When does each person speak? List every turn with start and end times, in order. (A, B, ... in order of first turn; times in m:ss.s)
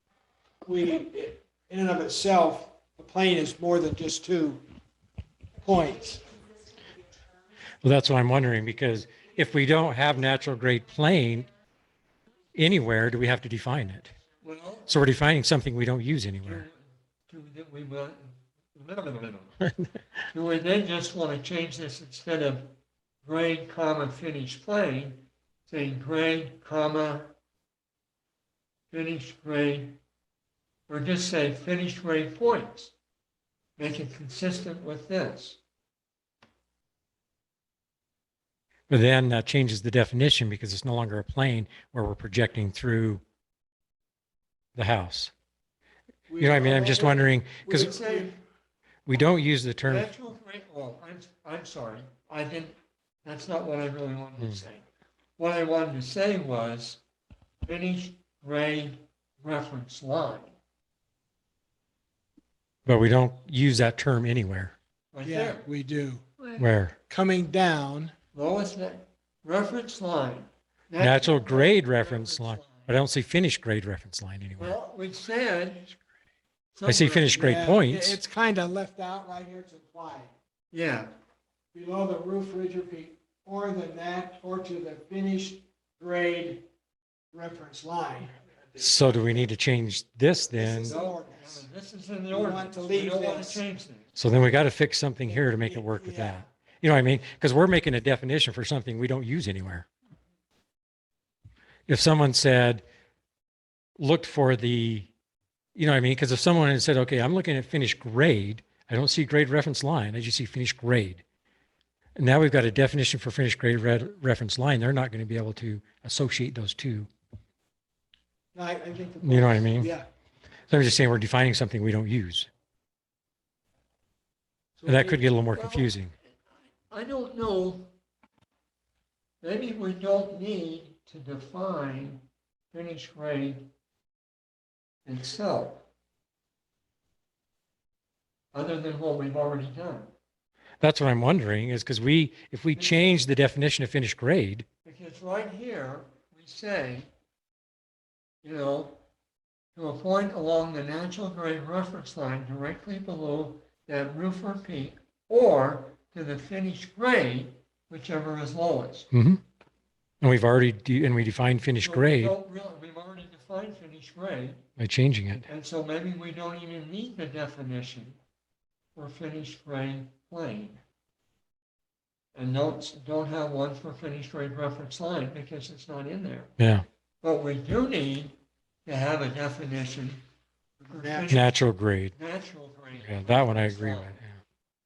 0:00.6-0:04.6 A
0:05.6-0:06.2 A
0:07.8-0:11.5 B
0:12.5-0:14.1 B
0:14.4-0:14.9 C
0:14.9-0:16.7 B
0:16.4-0:19.6 C
0:19.6-0:19.9 B
0:20.3-0:27.3 C
0:28.9-0:30.0 C
0:30.9-0:32.9 C
0:33.8-0:35.6 C
0:38.9-0:43.2 B
0:44.8-0:45.3 B
0:46.3-0:48.3 A
0:46.4-0:47.9 B
0:47.7-0:48.4 C
0:49.0-0:50.1 B
0:49.8-0:54.8 C
0:55.4-0:57.0 C
0:57.6-1:00.6 C
1:02.8-1:04.7 B
1:05.1-1:05.7 C
1:05.2-1:06.2 A
1:06.6-1:07.0 B
1:07.1-1:08.1 A
1:08.3-1:13.0 C
1:11.0-1:14.8 B
1:14.6-1:15.9 C
1:16.7-1:17.4 C
1:16.8-1:18.2 B
1:17.3-1:20.3 A
1:20.7-1:21.1 C
1:21.7-1:26.6 A
1:27.3-1:29.5 A
1:28.8-1:31.0 B
1:30.5-1:31.7 A
1:30.8-1:34.1 C
1:32.3-1:33.6 A
1:34.1-1:39.9 B
1:35.2-1:36.4 A
1:41.9-1:42.8 B
1:44.0-1:45.1 B
1:45.8-1:51.2 B
1:52.2-1:57.1 B
1:58.5-2:00.1 A
1:59.2-2:00.0 B
2:00.7-2:02.5 B
2:04.8-2:05.3 A
2:04.8-2:06.1 B
2:05.5-2:07.9 C
2:09.4-2:13.7 C
2:15.0-2:15.9 C
2:18.5-2:20.1 C
2:20.8-2:24.6 B
2:22.8-2:23.3 C
2:24.8-2:27.1 C
2:28.4-2:29.0 C
2:29.8-2:39.1 C
2:39.1-2:39.4 B
2:40.2-2:42.3 B
2:41.8-2:44.6 C
2:44.8-2:45.5 B
2:45.5-2:48.2 C
2:48.9-2:50.8 C
2:52.3-2:56.5 C
2:56.6-2:56.8 B
2:57.2-3:00.2 C
3:00.8-3:01.4 A
3:00.9-3:04.2 C
3:01.3-3:02.1 B
3:03.0-3:04.4 B